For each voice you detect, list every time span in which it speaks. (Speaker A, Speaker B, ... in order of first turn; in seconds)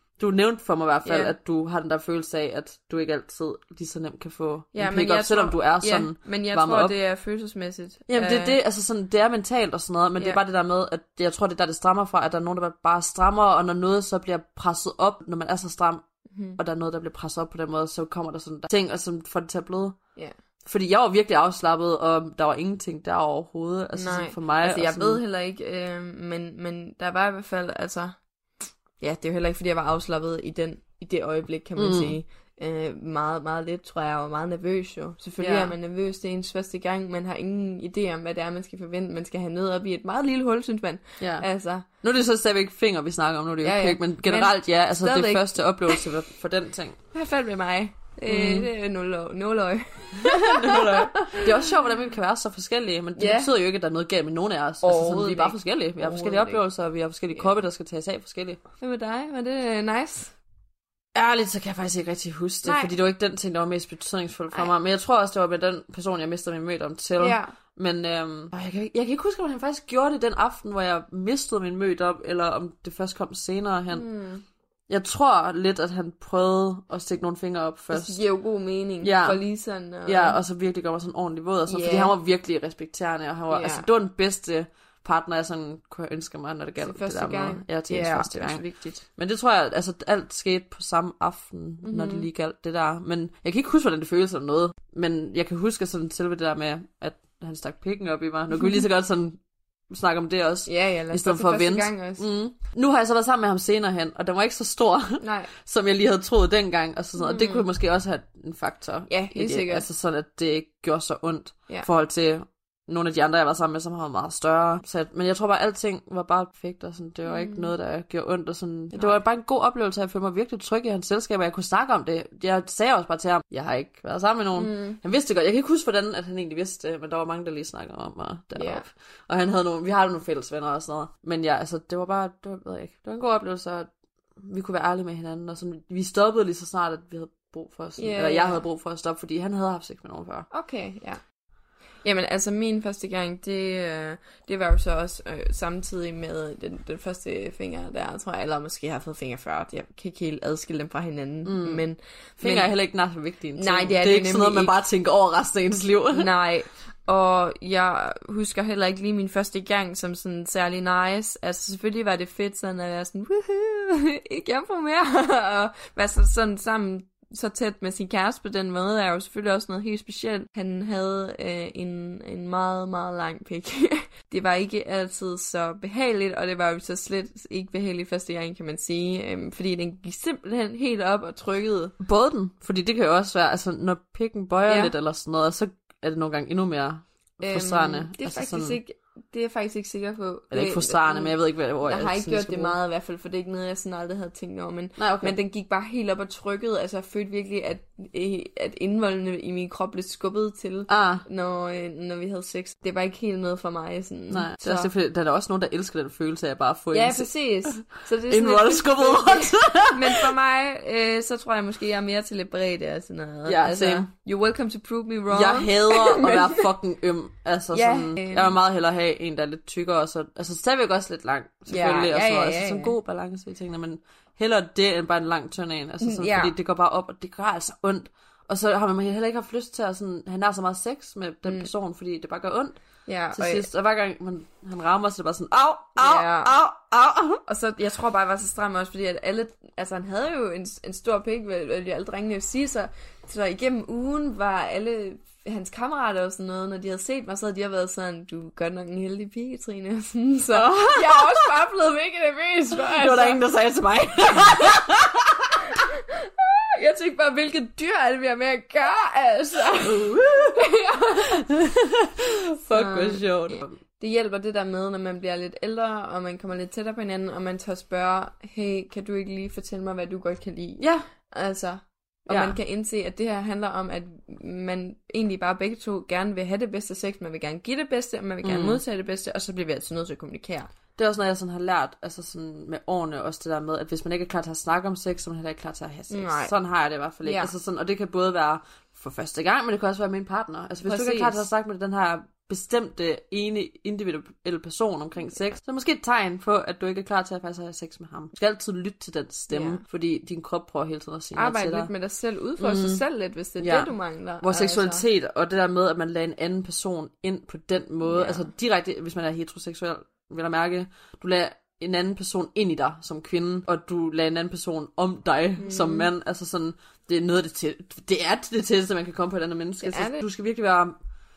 Speaker A: 0.2-6.9, 8.1-16.0, 16.6-20.0, 20.6-25.2, 31.8-32.1, 35.4-35.7, 41.2-47.0, 48.3-48.7, 50.2-58.6, 61.1-74.1, 74.9-78.2, 79.0-88.6, 89.2-99.4, 99.9-140.5, 151.4-151.8, 152.4-156.3, 182.0-188.8, 190.5-192.7, 195.0-195.3, 200.9-201.2, 204.3-210.3, 213.4-214.1, 215.3-232.8, 233.3-237.4, 250.5-251.5, 252.8-255.5, 259.8-260.7, 261.4-263.7, 270.8-271.1, 272.3-272.6, 278.4-278.8, 280.9-301.9, 302.6-303.0, 303.6-320.9
Speaker B: 1.0-1.3, 4.7-8.6, 16.3-16.6, 23.9-28.2, 29.0-41.9, 43.6-46.0, 47.1-51.5, 53.2-53.5, 54.8-56.6, 58.8-60.3, 62.6-62.9, 67.2-67.5, 73.9-74.4, 77.9-80.4, 81.7-82.1, 83.5-83.8, 86.8-89.0, 91.8-92.3, 100.7-102.2, 105.2-105.5, 107.2-107.7, 109.1-109.8, 117.2-117.7, 118.9-119.2, 124.6-125.0, 128.6-128.8, 138.0-138.6, 140.5-141.2, 142.0-152.7, 153.6-154.7, 156.1-181.9, 184.7-184.9, 187.4-204.9, 206.9-216.6, 217.7-218.5, 221.7-222.9, 226.0-226.5, 233.1-233.7, 236.0-236.5, 237.5-253.4, 254.3-254.9, 255.7-261.4, 262.7-280.7, 286.1-286.5, 287.2-287.5, 290.8-291.4, 299.5-299.8, 301.4-305.0, 308.0-308.5, 315.6-316.1, 319.8-320.2